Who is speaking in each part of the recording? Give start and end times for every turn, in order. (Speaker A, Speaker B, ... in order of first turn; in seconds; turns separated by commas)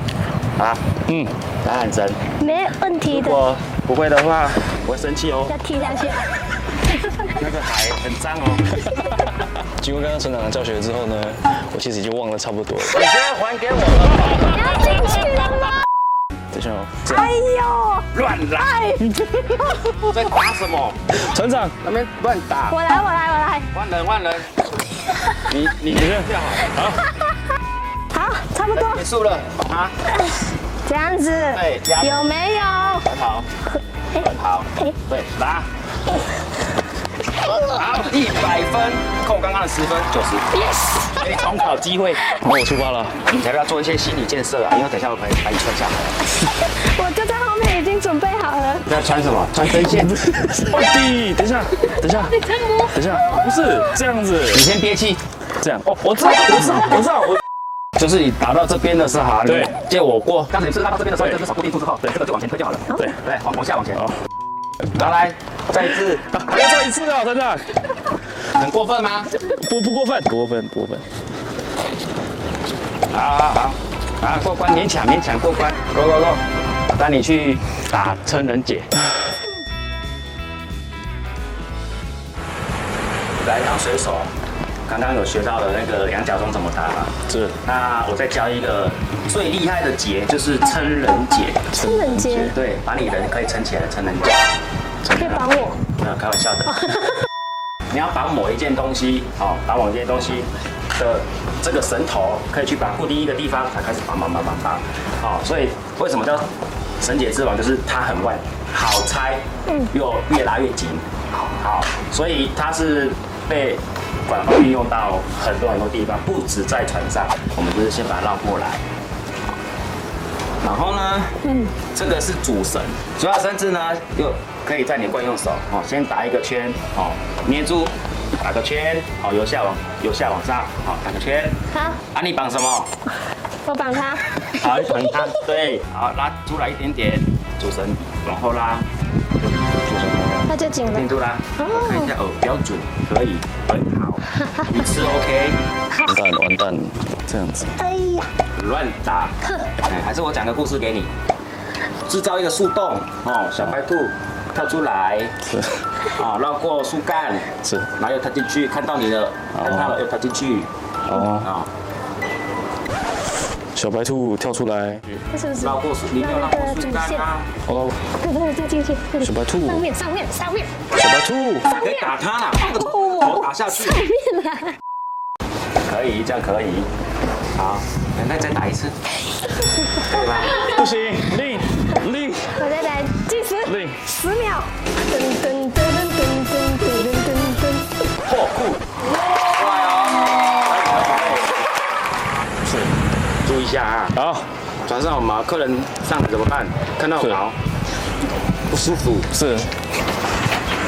Speaker A: 0.6-0.8, Speaker B: 1.1-1.3, Speaker A: 1.6-2.2, Speaker C: 2.4-3.4, Speaker A: 3.0-5.6, Speaker C: 5.5-6.4, Speaker A: 7.3-8.8, Speaker B: 9.7-13.0, Speaker A: 12.9-15.1, Speaker C: 14.3-15.8, Speaker B: 16.5-17.3, Speaker C: 17.0-18.1, Speaker A: 18.1-19.0, Speaker B: 19.0-19.6, Speaker A: 19.9-21.0, Speaker B: 21.1-21.7, Speaker A: 21.8-22.8, Speaker C: 22.7-23.7, Speaker A: 23.7-24.6, Speaker A: 25.4-26.9, Speaker B: 25.9-27.0, Speaker C: 28.1-29.0, Speaker A: 28.7-29.9, Speaker C: 30.2-33.0, Speaker A: 31.4-32.3, Speaker A: 33.0-33.5, Speaker A: 34.1-35.7, Speaker A: 37.5-42.2, Speaker C: 40.6-41.1, Speaker B: 42.4-43.3, Speaker A: 43.3-46.0, Speaker C: 46.5-48.8, Speaker A: 48.8-50.2, Speaker B: 50.1-54.6, Speaker C: 52.5-53.5, Speaker A: 54.5-55.2, Speaker B: 55.6-57.4, Speaker A: 56.5-56.9, Speaker A: 58.0-64.0, Speaker B: 59.5-59.7, Speaker A: 64.9-66.4, Speaker B: 66.3-67.7, Speaker A: 68.5-69.3, Speaker B: 69.4-71.1, Speaker A: 73.1-78.9, Speaker A: 83.4-84.3, Speaker A: 84.9-94.6, Speaker B: 87.3-87.5, Speaker B: 91.7-92.4, Speaker C: 91.7-92.5, Speaker B: 95.0-95.4, Speaker C: 95.1-95.8, Speaker A: 95.8-97.1, Speaker A: 97.9-106.5, Speaker A: 107.0-118.8, Speaker A: 120.6-132.9, Speaker C: 133.6-134.5, Speaker A: 134.4-138.8, Speaker A: 139.8-145.6, Speaker C: 140.5-142.1, Speaker B: 146.0-147.8, Speaker C: 147.8-148.3, Speaker A: 148.6-151.1, Speaker A: 152.0-155.4, Speaker A: 156.0-161.7, Speaker B: 161.1-161.4, Speaker B: 163.7-165.2, Speaker C: 165.3-167.2, Speaker A: 165.6-167.5, Speaker B: 167.7-167.9, Speaker C: 168.2-170.7, Speaker B: 169.2-169.9, Speaker B: 170.9-171.7, Speaker A: 171.6-174.0, Speaker C: 172.6-174.8, Speaker A: 175.8-176.9, Speaker A: 177.6-178.9, Speaker A: 179.9-180.7, Speaker B: 180.5-182.6, Speaker C: 182.5-187.9, Speaker B: 183.6-184.1, Speaker A: 188.2-188.8, Speaker A: 189.5-191.7, Speaker B: 192.6-192.9, Speaker A: 193.4-194.2, Speaker B: 194.1-194.5, Speaker A: 194.8-197.6, Speaker A: 198.7-199.3, Speaker B: 199.3-199.8